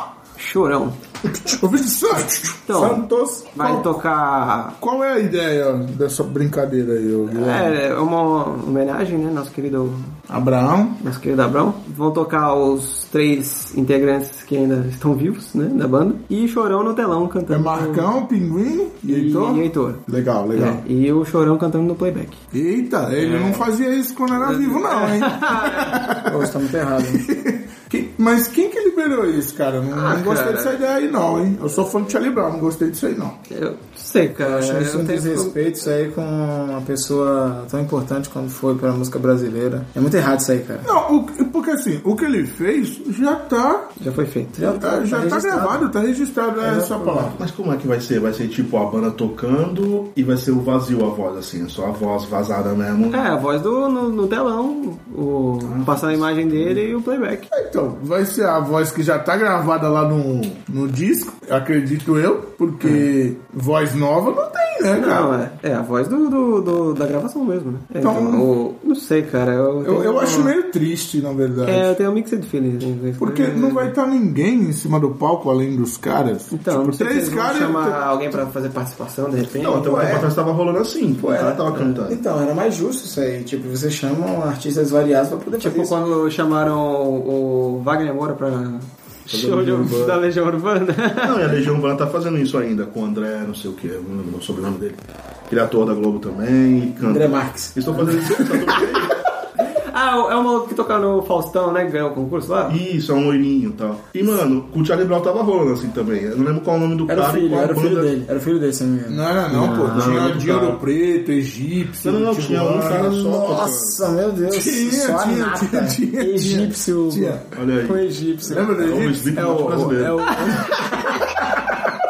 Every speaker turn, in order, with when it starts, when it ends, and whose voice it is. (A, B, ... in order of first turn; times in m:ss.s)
0:00.4-0:01.0 A
0:01.3-0:02.7 B
0:02.7-0:04.8 A
0:02.7-0:03.6 C
0:03.6-0:03.9 B
0:04.8-0:07.8 B
0:07.3-0:10.1 A
0:10.3-0:11.0 B
0:11.0-0:18.1 A
0:17.5-0:20.8 B
0:19.0-0:20.0 A
0:20.5-0:22.4 A
0:22.5-0:33.4 B
0:23.1-0:23.7 A
0:24.3-0:26.1 A
0:26.1-0:27.3 C
0:29.9-0:30.8 A
0:33.5-0:35.5 A
0:34.4-0:40.9 C
0:40.8-0:43.9 B
0:44.0-0:44.8 A
0:44.6-0:45.8 C
0:44.8-0:47.4 B
0:46.6-0:47.4 C
0:47.3-0:53.3 D
0:53.1-0:57.5 A
0:55.6-0:56.8 D
0:57.5-1:05.3 B
1:04.9-1:10.5 A
1:08.0-1:08.5 B
1:09.8-1:11.9 B
1:11.6-1:13.9 A
1:13.2-1:18.1 B
1:16.5-1:20.2 A
1:19.6-1:22.2 D
1:19.8-1:20.3 C
1:21.2-1:25.9 C
1:21.7-1:22.0 A
1:25.6-1:31.6 A
1:29.3-1:30.2 D
1:31.2-1:39.2 D
1:37.0-1:38.8 C
1:39.6-1:42.8 A
1:42.7-1:48.1 D
1:47.1-1:49.2 C
1:49.1-1:53.1 B
1:49.5-1:50.4 A
1:49.5-1:50.8 D
1:52.0-1:54.1 D
1:52.8-2:01.9 C
1:54.5-1:57.4 B
1:57.5-1:58.0 D
1:58.4-2:00.0 B
1:58.8-2:00.5 D